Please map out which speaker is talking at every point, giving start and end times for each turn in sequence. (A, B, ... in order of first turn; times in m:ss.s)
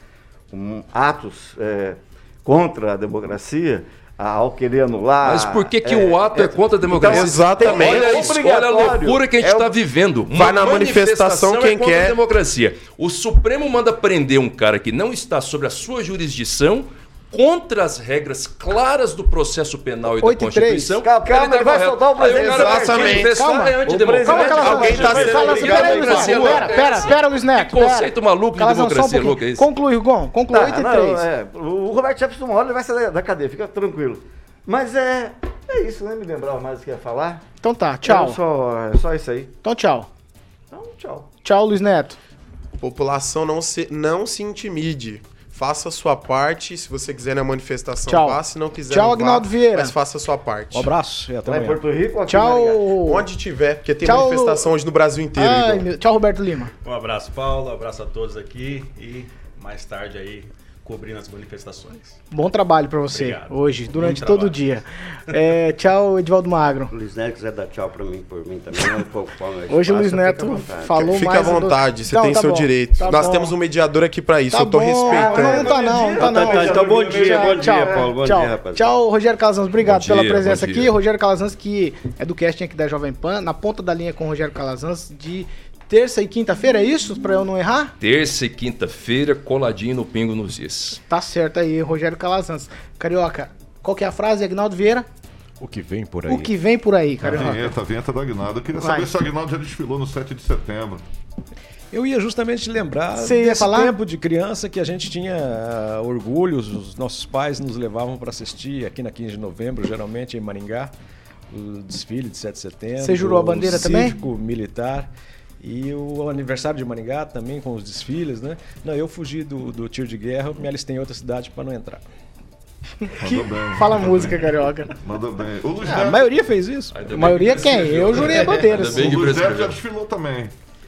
0:00.5-0:09.8 A
0:05.2-0:29.7 B
0:07.0-0:08.3 C
0:10.3-0:12.2 C
0:20.2-0:21.0 D
0:21.0-0:23.3 A
0:22.3-0:23.8 C
0:23.3-0:23.7 D
0:23.8-0:26.8 A
0:24.2-0:31.2 D
0:24.3-0:26.2 C
0:30.5-0:37.4 A
0:37.6-0:38.4 D
0:38.0-0:39.5 A
0:39.6-0:40.1 D
0:40.7-0:41.3 A
0:41.4-0:42.2 D
0:42.8-0:50.9 C
0:48.1-0:48.4 D
0:48.9-0:49.9 D
0:50.7-0:51.8 E
0:51.4-0:52.8 A
0:52.3-0:53.2 D
0:53.0-0:55.9 C
0:54.0-0:54.7 D
0:55.4-0:56.7 D
0:56.8-1:02.2 F
1:02.3-1:06.9 D
1:03.1-1:04.7 F
1:06.9-1:11.6 G
1:09.7-1:13.5 D
1:11.0-1:15.8 C
1:14.5-1:27.9 D
1:15.0-1:18.1 A
1:16.1-1:17.1 F
1:16.2-1:18.9 G
1:19.8-1:20.9 B
1:28.0-1:31.0 B
1:31.1-1:35.1 D
1:35.6-1:36.5 E
1:36.3-1:37.7 D
1:37.2-1:41.0 H
1:37.2-1:37.5 E
1:38.8-1:39.1 D
1:41.9-1:50.9 E
1:43.2-1:44.0 D
1:51.5-1:55.1 E
1:53.0-1:54.1 D
1:55.6-2:02.0 E
2:03.0-2:04.9 D
2:03.2-2:06.4 H
2:05.8-2:08.8 E
2:06.9-2:09.8 B
2:07.1-2:09.1 D
2:08.4-2:10.5 H